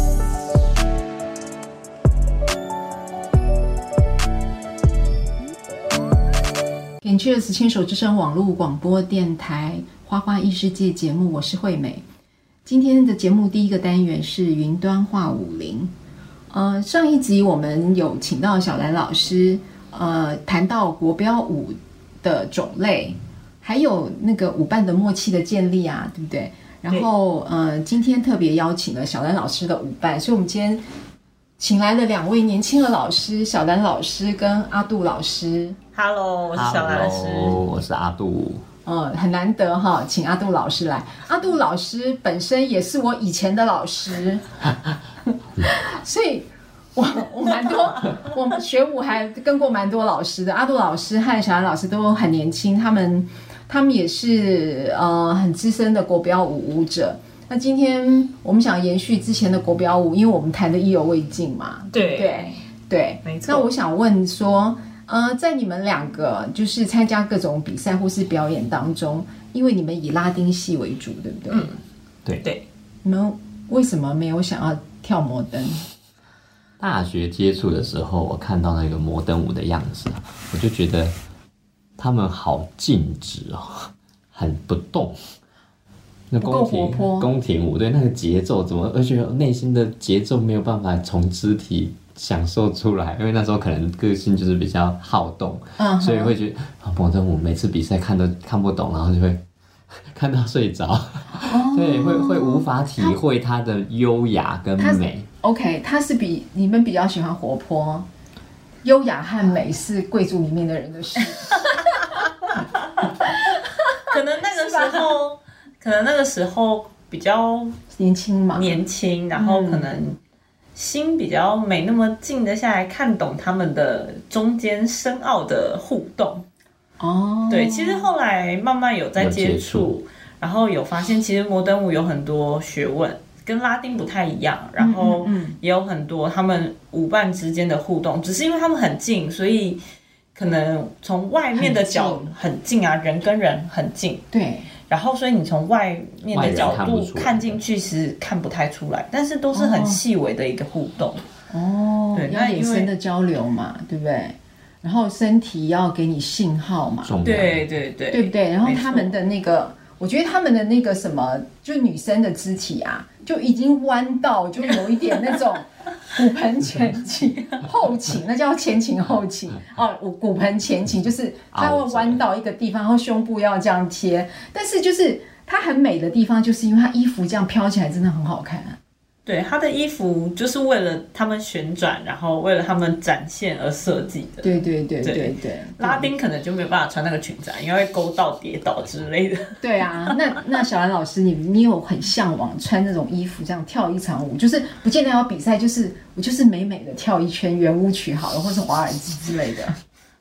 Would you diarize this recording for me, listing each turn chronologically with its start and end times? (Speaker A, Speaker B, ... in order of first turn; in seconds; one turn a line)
Speaker A: 7.0-12.0
Speaker A: 12.7-15.9
Speaker A: 16.5-30.8
Speaker A: 31.6-35.8
Speaker B: 35.9-37.6
Speaker C: 36.5-38.6
Speaker A: 38.9-44.5
Speaker A: 45.6-71.7
Speaker B: 61.9-62.5
Speaker B: 63.2-63.7
Speaker B: 71.5-71.8
Speaker A: 73.0-75.8
Speaker C: 76.8-81.2
Speaker C: 82.0-85.2
Speaker C: 86.3-99.4
Speaker A: 86.4-87.3
Speaker A: 95.8-96.3
Speaker C: 100.0-105.3
Speaker A: 101.5-103.2
Speaker A: 104.8-108.1
Speaker A: 108.8-111.8
Speaker B: 114.1-117.8
Speaker A: 114.5-115.2
Speaker A: 117.9-118.7
Speaker B: 118.5-120.2
Speaker A: 119.3-119.9
Speaker B: 120.8-126.5
Speaker A: 127.0-128.1
Speaker B: 127.5-139.8
Speaker C: 129.2-129.9
Speaker A: 134.8-135.6
Speaker B: 140.3-144.2
Speaker A: 141.6-142.3
Speaker A: 144.3-144.7
Speaker B: 144.9-151.2
Speaker C: 146.3-147.6
Speaker A: 149.5-150.0
Speaker A: 151.5-157.2
Speaker B: 152.1-152.9
Speaker C: 157.0-157.7
Speaker B: 157.2-159.1
Speaker A: 158.1-178.8
Speaker C: 171.5-172.2
Speaker B: 179.3-190.2
Speaker A: 184.4-186.1
Speaker A: 189.6-199.8